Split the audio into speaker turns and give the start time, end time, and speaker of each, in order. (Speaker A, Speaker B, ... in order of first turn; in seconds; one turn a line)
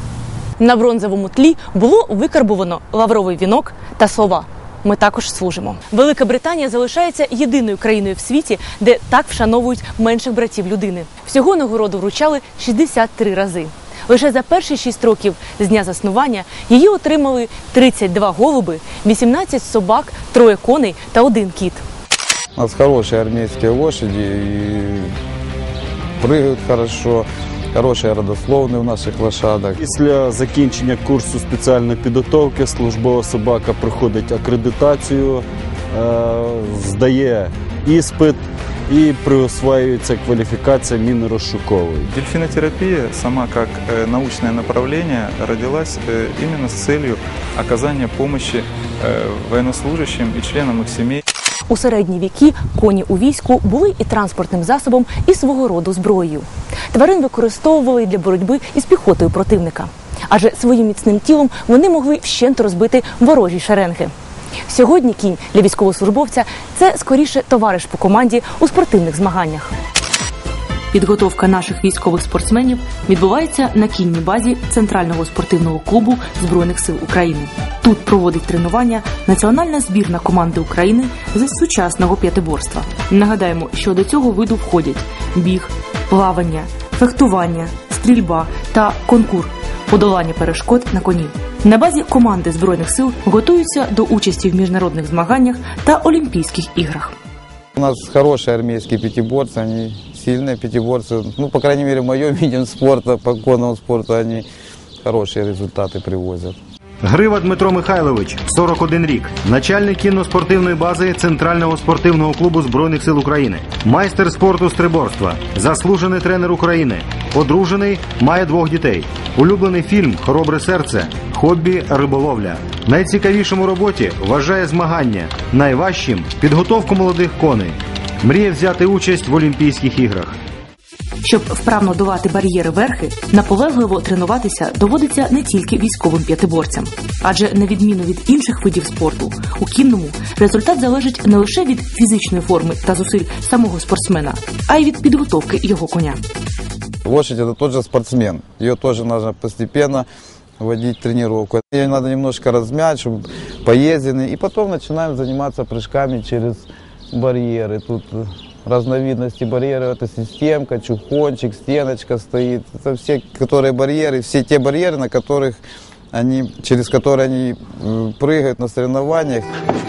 Speaker A: 0.6-21.8
Speaker B: 22.6-25.1
Speaker B: 26.2-29.8
Speaker C: 29.8-42.1
Speaker D: 32.7-35.4
Speaker D: 36.7-37.5
Speaker D: 38.0-38.4
Speaker D: 38.9-51.2
Speaker A: 51.7-64.1
Speaker A: 64.7-69.7
Speaker A: 70.9-97.1
Speaker B: 97.8-104.4
Speaker B: 105.0-106.5
Speaker E: 107.0-130.4
Speaker A: 131.2-146.2
Speaker B: 147.0-150.1
Speaker B: 150.6-165.6
Speaker B: 166.1-169.5